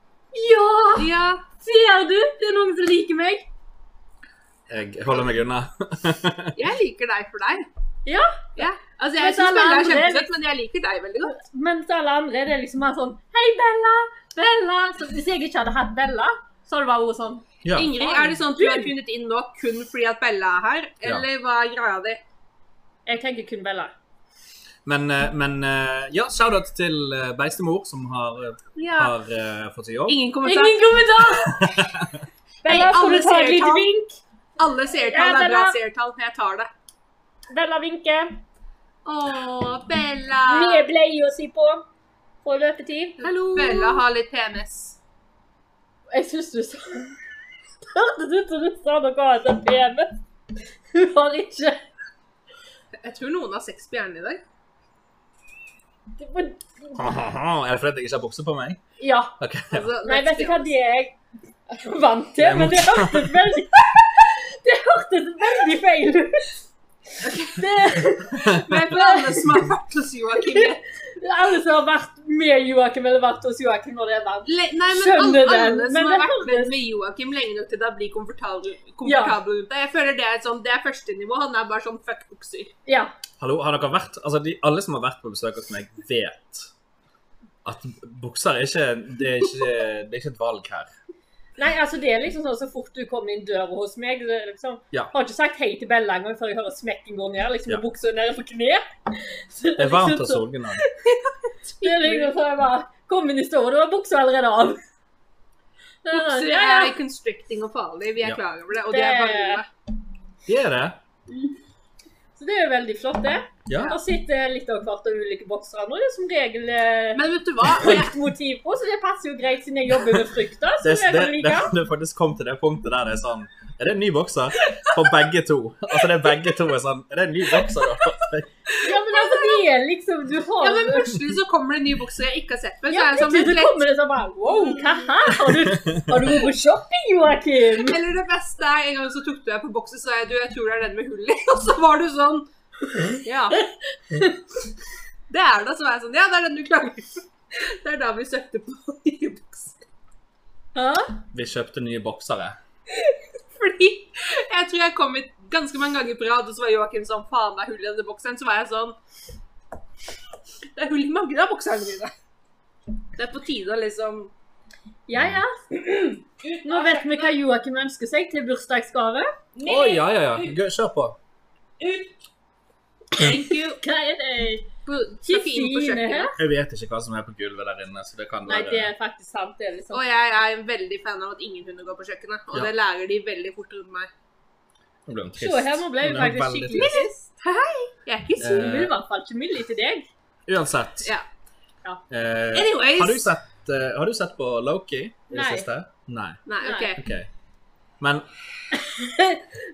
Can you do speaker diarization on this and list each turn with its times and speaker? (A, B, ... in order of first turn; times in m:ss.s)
0:00.3-0:03.4 A
0:01.0-0:01.4 B
0:04.7-0:06.5 C
0:06.5-0:07.7 B
0:08.0-0:08.5 A
0:08.6-0:11.3 B
0:09.2-0:10.3 A
0:11.3-0:18.9 A
0:17.6-0:17.9 C
0:17.7-0:22.2 B
0:23.0-0:23.9 A
0:24.8-0:30.2 C
0:28.8-0:29.1 B
0:30.1-0:31.2 B
0:30.4-0:31.8 A
0:31.6-0:32.1 C
0:32.6-0:34.1 A
0:32.6-0:33.9 B
0:34.6-0:36.7 B
0:35.1-0:35.8 A
0:37.5-0:38.4 A
0:39.0-0:40.8 B
0:40.5-0:41.8 A
0:42.4-0:44.0 A
0:43.2-0:45.0 B
0:46.1-0:47.2 A
0:47.9-0:50.2 A
0:50.9-0:51.8 A
0:53.0-0:54.4 B
0:56.2-0:56.9 A
0:56.9-0:58.8 C
0:59.0-0:59.3 A
0:59.4-0:59.9 C
0:59.7-1:00.7 B
1:00.0-1:01.1 A
1:01.7-1:06.6 A
1:02.4-1:03.3 C
1:07.2-1:07.7 B
1:07.3-1:09.6 A
1:08.4-1:10.8 B
1:10.4-1:16.7 A
1:14.4-1:22.7 B
1:19.0-1:19.4 A
1:22.8-1:23.1 A
1:23.4-1:26.7 C
1:27.6-1:30.9 C
1:31.6-1:41.1 A
1:39.8-1:40.8 C
1:41.6-1:42.3 B
1:41.8-1:44.8 A
1:46.0-1:46.9 A
1:46.1-1:49.6 B
1:48.9-1:49.6 A
1:50.5-1:51.0 C
1:52.4-2:01.7 A
1:53.7-1:54.0 C
1:57.1-1:58.2 B
2:00.8-2:08.5 C
2:08.8-2:11.1 A
2:09.0-2:09.6 B
2:10.6-2:13.8 B
2:12.9-2:18.0 A
2:14.5-2:14.9 B
2:15.7-2:16.1 C
2:17.8-2:22.5 B
2:23.2-2:23.6 B
2:23.6-2:24.4 A
2:25.3-2:29.8 B
2:30.7-2:31.1 A
2:31.3-2:32.6 C
2:33.5-2:39.0 B
2:40.8-2:42.1 B
2:43.2-2:44.3 B
2:45.1-2:45.5 A
2:45.9-2:47.3 B
2:46.6-2:49.3 A
2:49.5-2:50.6 B
2:49.6-2:51.2 C
2:51.8-2:52.1 B
2:53.1-2:53.8 B
2:53.2-2:54.7 A
2:54.8-2:56.3 B
2:55.2-2:56.3 A
2:56.4-2:58.9 C
2:58.4-3:00.0 A
2:59.9-3:04.1 B
3:05.1-3:06.9 C
3:05.4-3:07.2 A
3:06.7-3:08.8 B
3:08.4-3:08.9 C
3:08.5-3:10.1 A
3:10.5-3:11.1 C
3:12.1-3:16.4 C
3:12.5-3:13.3 B
3:15.3-3:15.7 A
3:16.4-3:17.0 B
3:16.6-3:16.9 A
3:17.0-3:17.3 C
3:18.0-3:18.3 C
3:18.7-3:19.4 A